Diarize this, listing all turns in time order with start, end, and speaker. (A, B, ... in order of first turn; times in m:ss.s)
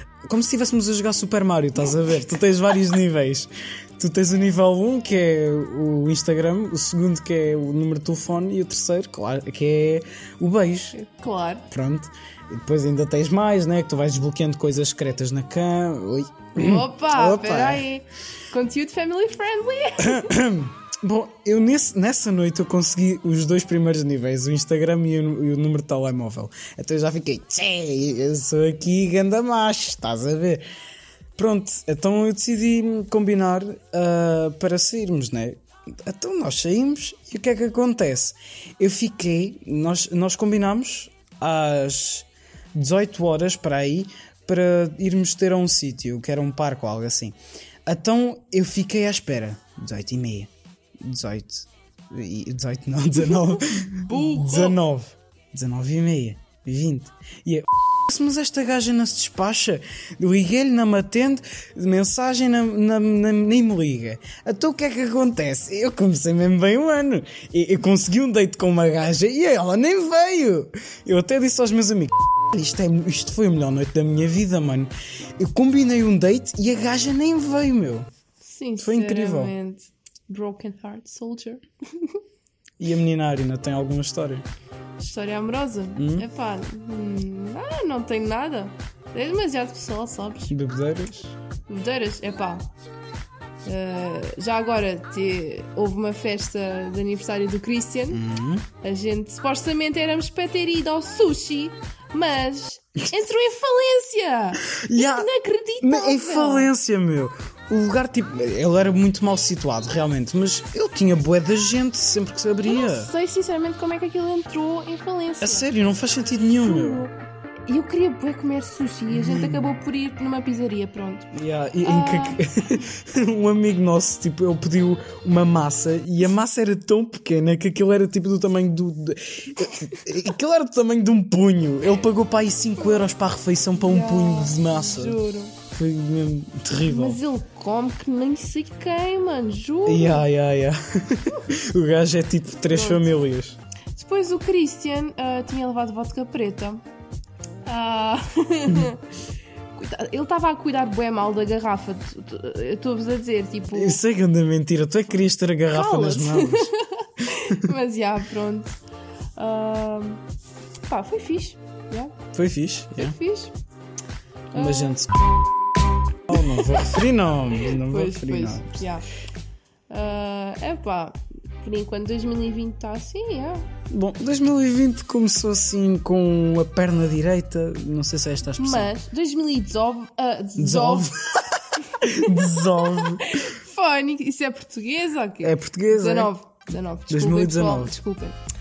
0:00.3-0:11.0 A
0:10.9-0:11.7 B
0:11.7-0:17.9 A
0:16.6-0:20.3 B
0:20.0-0:30.6 A
0:31.4-0:47.4 A
0:47.9-1:18.1 A
0:53.7-0:54.8 B
1:18.4-1:22.2 B
1:18.8-1:19.5 A
1:22.8-1:24.4 A
1:25.0-1:30.5 B
1:26.0-1:26.3 A
1:30.5-1:31.3 A
1:31.7-1:32.7 B
1:33.6-1:38.2 B
1:38.1-1:38.7 A
1:38.8-1:46.7 B
1:44.7-1:53.1 A
1:52.6-1:55.7 B
1:55.4-1:57.1 A
1:56.6-1:57.1 B
1:57.7-2:01.3 B
1:59.1-1:59.7 A
2:01.3-2:17.2 A
2:01.8-2:02.4 B
2:13.8-2:15.6 B
2:16.9-2:20.3 B
2:19.9-2:23.6 A
2:22.7-2:23.1 B
2:24.0-2:26.8 B
2:27.6-2:29.0 B
2:29.8-2:34.0 B
2:33.7-2:36.7 A
2:35.7-2:38.8 B
2:37.3-2:37.7 A
2:39.4-2:40.2 B
2:40.9-2:42.2 B
2:42.3-2:43.2 A
2:43.0-2:43.5 B
2:44.5-2:45.0 B
2:44.6-2:45.2 A
2:46.3-2:48.8 A
2:46.4-2:46.6 B
2:47.8-2:49.1 B
2:49.9-2:53.7 B
2:53.9-2:58.9 A
2:58.6-3:01.2 B
3:00.6-3:03.4 A
3:01.9-3:08.4 B
3:05.4-3:06.3 A
3:07.1-3:08.0 A